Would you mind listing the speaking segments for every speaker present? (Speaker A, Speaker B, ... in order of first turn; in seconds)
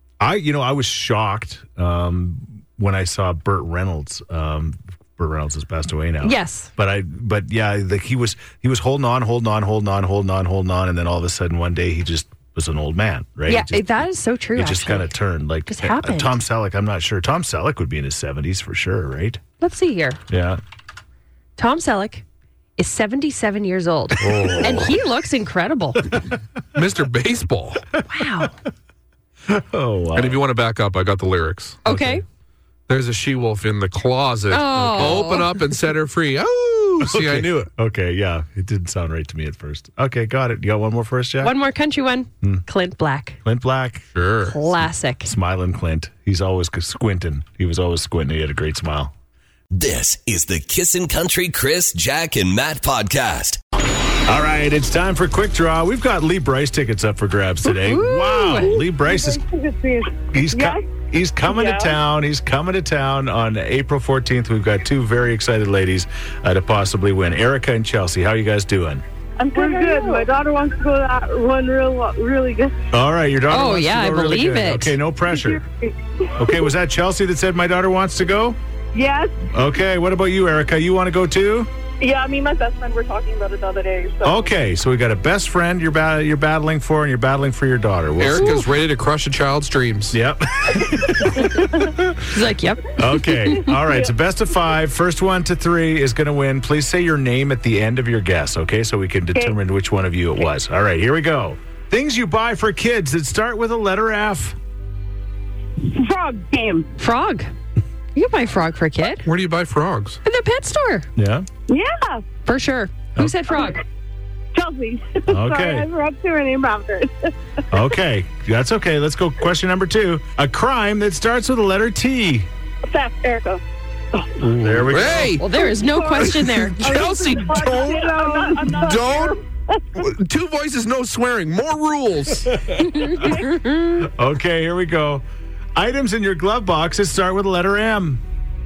Speaker A: 0.2-19.4, 20.3-20.6, 24.2-24.9, 29.5-30.4, 31.9-32.2, 35.0-35.3, 37.0-41.6, 43.5-44.1, 45.2-49.1, 54.2-59.4, 60.3-69.0, 72.9-75.6, 76.4-78.6, 79.5-81.7, 84.2-88.6, 90.1-92.2, 93.0-104.6, 111.2-111.5, 115.3-115.9, 117.7-122.5, 124.4-125.4, 132.7-133.1, 134.0-135.2, 135.8-138.2
Speaker B: 6.2-6.7, 13.5-15.1, 15.7-16.4, 19.6-20.2, 21.6-22.2, 22.8-26.1, 28.1-28.6, 31.9-32.2, 34.5-35.5, 41.4-43.4, 44.5-45.3, 57.7-58.8, 73.5-75.0, 92.2-93.8, 107.0-107.5, 108.2-109.3, 110.2-111.1, 112.5-113.8, 125.4-127.2, 132.8-133.9
Speaker C: 24.2-24.9, 26.7-27.8, 30.1-32.1, 32.9-37.7, 44.1-44.6, 88.2-90.2, 109.2-110.2, 124.9-125.5, 126.2-129.4, 130.0-132.5
Speaker D: 49.7-53.6
Speaker E: 58.5-60.8, 61.5-62.0, 69.4-72.7, 75.3-75.6, 76.4-76.7, 78.9-79.4, 82.0-84.5, 93.7-94.1, 105.8-106.9, 111.7-112.2, 113.5-113.8, 114.5-117.3, 122.9-123.6, 124.2-124.9, 125.5-129.4, 133.1-133.6